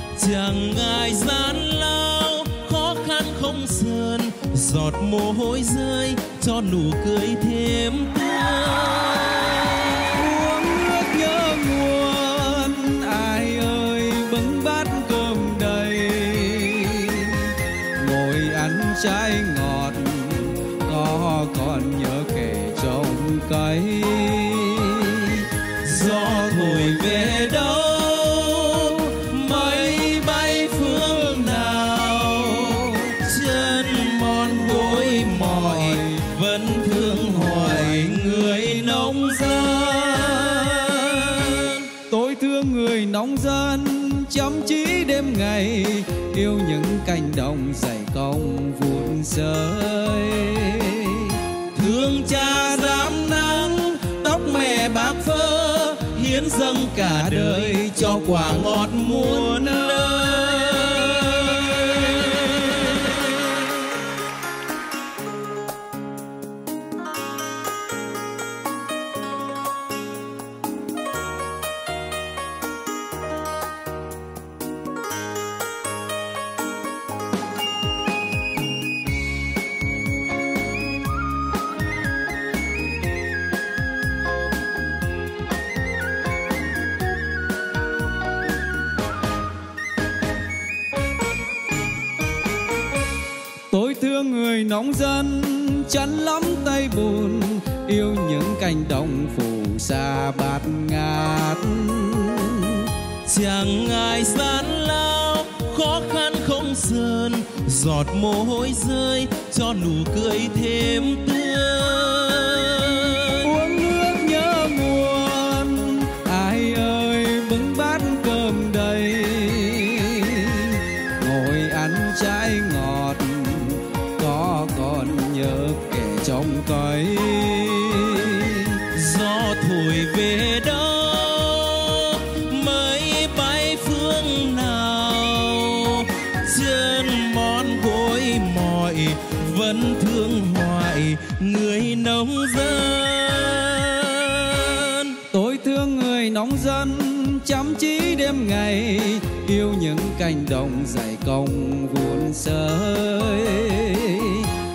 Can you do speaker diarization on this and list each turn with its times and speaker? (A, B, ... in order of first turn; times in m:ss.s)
0:00.1-0:10.3 A
0:10.2-0:25.4 B
0:25.7-0:41.9 A
0:42.1-0:51.4 B
0:51.7-1:03.2 A
0:57.3-0:57.9 B
1:33.7-1:42.9 B
1:43.2-1:53.5 A
1:53.4-2:08.8 B
2:08.9-2:25.2 A
2:25.3-2:34.5 B